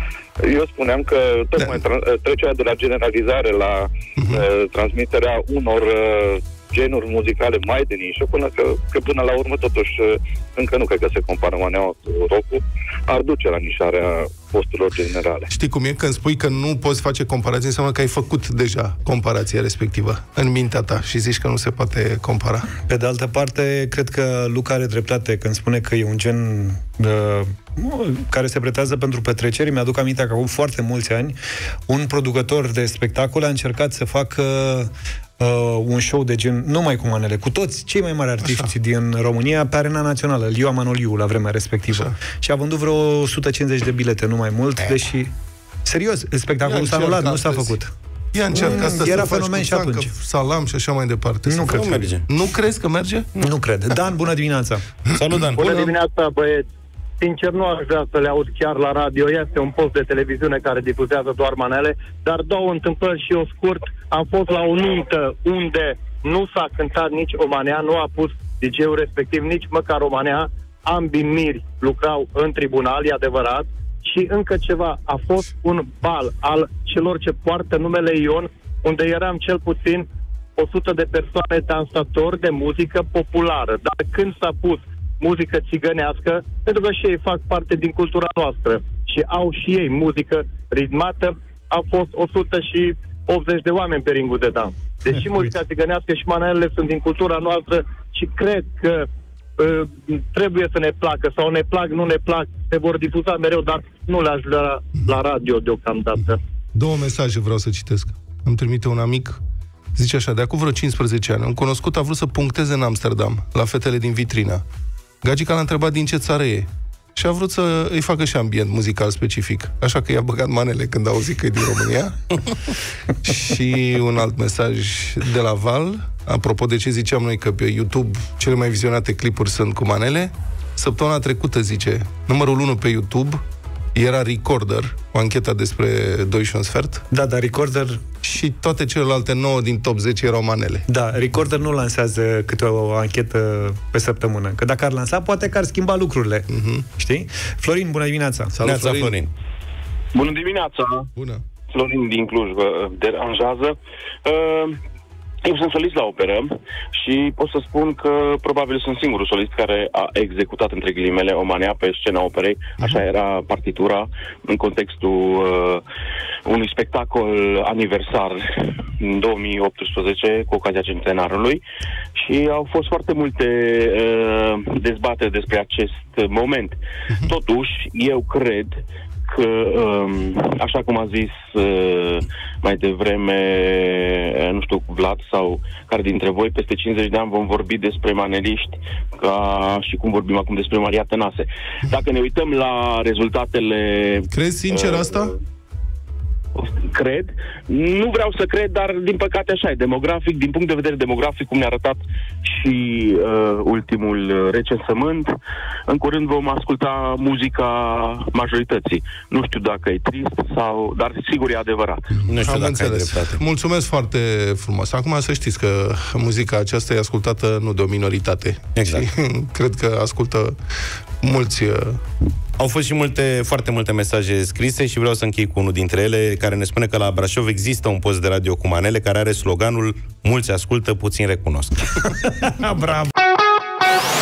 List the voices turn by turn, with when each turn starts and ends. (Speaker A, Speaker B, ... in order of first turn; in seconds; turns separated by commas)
Speaker A: 0.4-15.5, Speaker B: 4.2-4.4, Speaker B: 15.5-22.7, Speaker C: 22.8-31.4, Speaker C: 31.9-45.3, Speaker B: 38.4-38.7, Speaker C: 45.8-47.9, Speaker B: 46.6-47.8, Speaker B: 48.3-53.3, Speaker C: 48.5-50.1, Speaker C: 51.5-52.1, Speaker D: 51.7-52.2, Speaker C: 53.4-54.8, Speaker D: 55.1-55.9, Speaker E: 55.6-56.6, Speaker E: 57.2-80.0, Speaker E: 80.6-99.0, Speaker E: 99.6-106.4, Speaker B: 106.3-109.4, Speaker B: 109.9-114.6, Speaker B: 115.2-122.3, Speaker B: 123.2-133.4, Speaker B: 133.9-137.0, Speaker C: 137.1-138.0, Speaker B: 138.2-140.8, Speaker C: 140.9-148.5, Speaker B: 146.5-146.8, Speaker B: 148.5-149.1, Speaker D: 148.6-149.3, Speaker F: 150.1-151.1, Speaker B: 151.2-151.4, Speaker F: 151.7-154.8, Speaker F: 155.4-165.8, Speaker F: 166.5-168.4, Speaker F: 169.0-171.6, Speaker F: 172.2-195.2, Speaker B: 194.3-195.3, Speaker F: 196.5-205.3, Speaker F: 205.9-212.1, Speaker B: 212.2-220.5, Speaker D: 212.2-213.4, Speaker D: 218.8-219.1, Speaker B: 221.2-222.0, Speaker D: 222.6-232.0, Speaker C: 232.2-233.0